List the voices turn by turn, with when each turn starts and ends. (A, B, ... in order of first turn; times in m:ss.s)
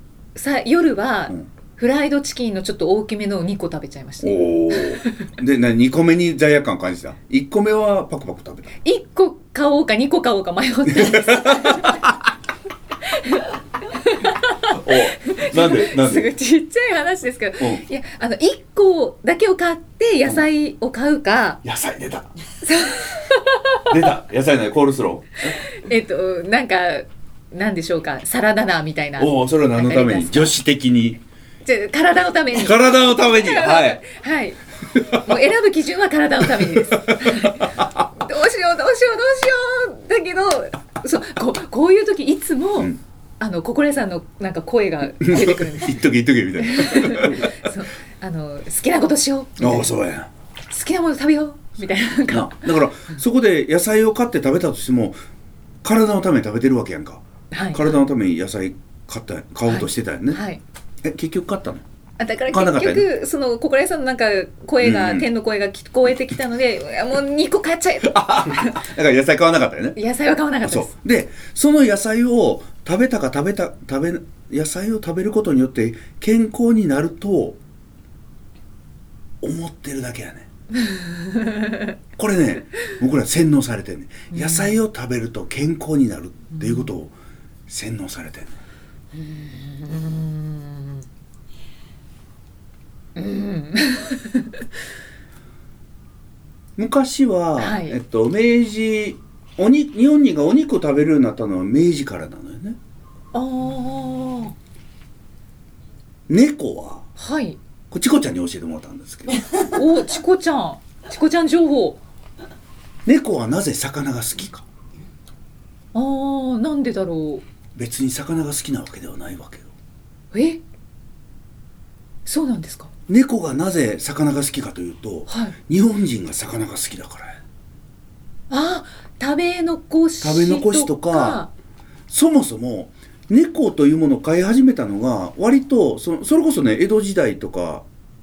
0:00.4-0:05.3 A
0:04.2-0:08.7 B
0:08.8-0:12.0 A
0:10.9-0:12.1 B
0:13.1-0:21.6 A
0:14.7-0:16.3 B
0:21.6-0:22.3 B
0:22.6-0:23.9 A
0:23.9-0:25.6 B
0:25.6-0:30.5 A
0:29.2-0:31.2 B
0:31.6-0:46.0 A
0:32.5-0:34.0 B
0:34.9-0:35.2 B
0:36.6-0:37.9 B
0:45.2-0:47.7 B
0:46.6-0:49.9 A
0:49.6-0:50.3 B
0:50.7-0:52.7 A
0:52.3-0:55.2 B
0:55.8-0:57.2 B
0:57.5-0:58.0 A
0:57.7-1:00.4 B
0:59.6-1:00.6 A
1:01.0-1:01.8 B
1:02.2-1:08.8 A
1:02.5-1:03.1 B
1:04.8-1:05.3 B
1:08.0-1:10.0 B
1:10.0-1:10.9 A
1:10.6-1:17.6 B
1:19.4-1:20.5 B
1:20.8-1:21.9 A
1:22.2-1:27.1 B
1:24.3-1:24.8 A
1:26.5-1:26.9 A
1:27.7-1:28.6 B
1:29.1-1:31.0 A
1:33.2-1:34.6 A
1:36.8-1:42.8 B
1:37.6-1:38.0 A
1:43.3-1:44.5 A
1:46.3-1:47.0 B
1:47.2-1:47.6 A
1:47.9-1:49.4 B
1:49.6-1:52.0 A
1:53.1-1:54.6 B
1:55.9-1:57.4 A
1:57.8-1:59.7 B
2:00.3-2:00.6 A
2:02.2-2:02.9 A
2:03.1-2:07.4 B
2:05.3-2:05.6 A
2:08.5-2:11.5 A
2:10.2-2:11.4 B
2:12.1-2:17.8 B